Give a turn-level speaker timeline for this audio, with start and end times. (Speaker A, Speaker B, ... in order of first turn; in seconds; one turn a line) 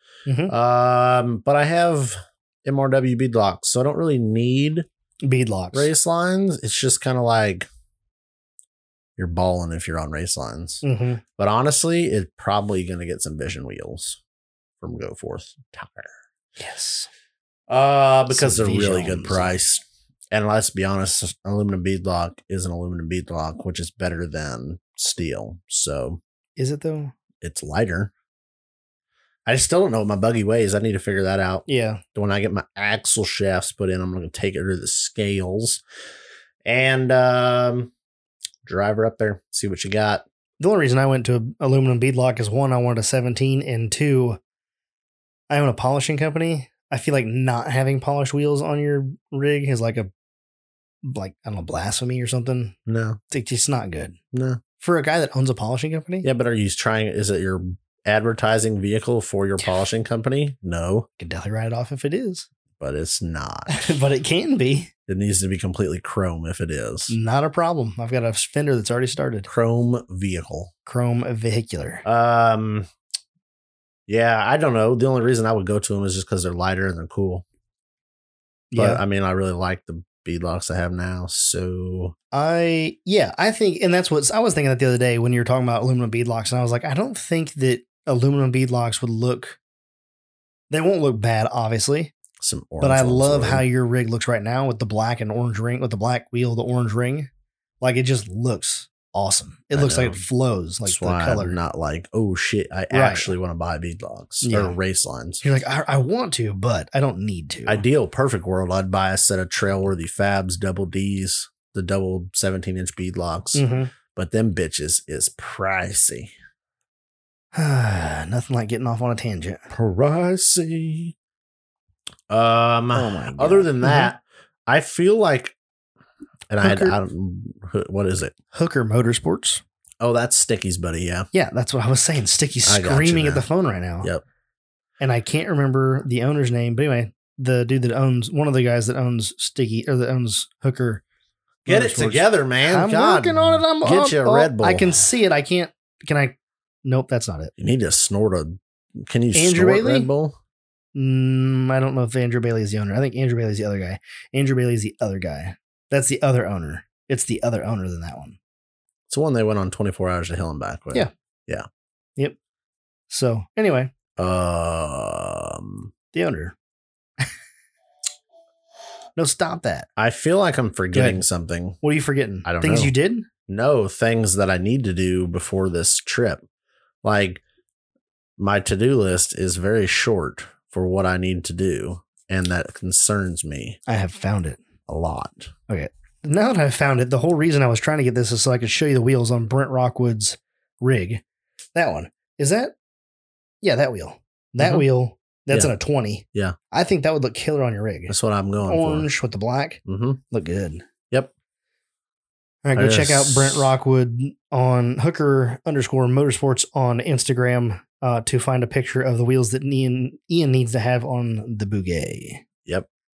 Speaker A: 0.3-0.5
Speaker B: 0.5-4.9
Speaker A: 5.2-5.9
Speaker B: 5.7-7.7
Speaker B: 9.2-10.8
Speaker A: 10.8-11.2
Speaker B: 11.4-14.2
Speaker B: 14.8-16.1
Speaker A: 16.6-17.1
Speaker B: 17.7-26.2
Speaker A: 18.3-19.5
Speaker A: 26.6-27.1
Speaker B: 27.4-28.1
Speaker B: 29.4-35.8
Speaker A: 31.7-32.0
Speaker B: 36.6-37.9
Speaker B: 38.6-40.2
Speaker A: 40.6-44.4
Speaker A: 45.5-50.1
Speaker A: 51.0-52.8
Speaker B: 52.9-53.2
Speaker A: 53.3-54.2
Speaker B: 54.3-54.6
Speaker A: 54.8-56.3
Speaker B: 56.2-61.1
Speaker A: 61.2-62.5
Speaker B: 62.8-63.9
Speaker A: 63.7-64.9
Speaker B: 65.1-67.1
Speaker A: 67.1-69.5
Speaker B: 69.5-70.7
Speaker A: 70.9-72.0
Speaker B: 72.0-72.9
Speaker B: 74.1-77.4
Speaker A: 78.7-79.0
Speaker B: 78.7-82.1
Speaker A: 82.3-89.6
Speaker A: 90.7-92.1
Speaker B: 92.4-93.6
Speaker A: 92.8-97.3
Speaker A: 97.8-101.6
Speaker B: 99.7-100.2
Speaker B: 100.9-105.4
Speaker A: 102.9-103.3
Speaker A: 104.4-104.8
Speaker A: 105.4-107.8
Speaker B: 107.7-116.3
Speaker A: 113.5-113.9
Speaker A: 117.5-119.6
Speaker B: 119.7-121.1
Speaker B: 122.3-125.5
Speaker A: 122.9-124.1
Speaker B: 126.5-128.3
Speaker A: 126.6-127.0
Speaker A: 128.5-129.6
Speaker B: 130.0-131.3
Speaker A: 131.3-134.1
Speaker B: 132.6-133.4
Speaker A: 135.0-141.0
Speaker B: 141.7-145.0
Speaker A: 141.7-147.5
Speaker B: 147.6-150.4
Speaker A: 149.3-150.1
Speaker A: 150.9-158.4
Speaker B: 159.1-161.6
Speaker A: 163.1-163.9
Speaker B: 164.2-165.9
Speaker A: 166.1-166.6
Speaker A: 169.2-169.9
Speaker B: 170.0-171.8
Speaker A: 170.9-171.2
Speaker A: 171.8-173.3
Speaker B: 172.4-172.9
Speaker B: 173.5-176.4
Speaker B: 177.0-177.4
Speaker B: 178.4-183.8
Speaker A: 183.9-184.6
Speaker B: 184.9-185.5
Speaker A: 185.7-191.2
Speaker A: 191.7-192.7
Speaker A: 193.6-198.1
Speaker B: 194.6-194.9
Speaker B: 198.1-199.1
Speaker A: 198.6-200.8
Speaker B: 199.9-200.2
Speaker A: 202.6-212.4
Speaker B: 202.7-203.7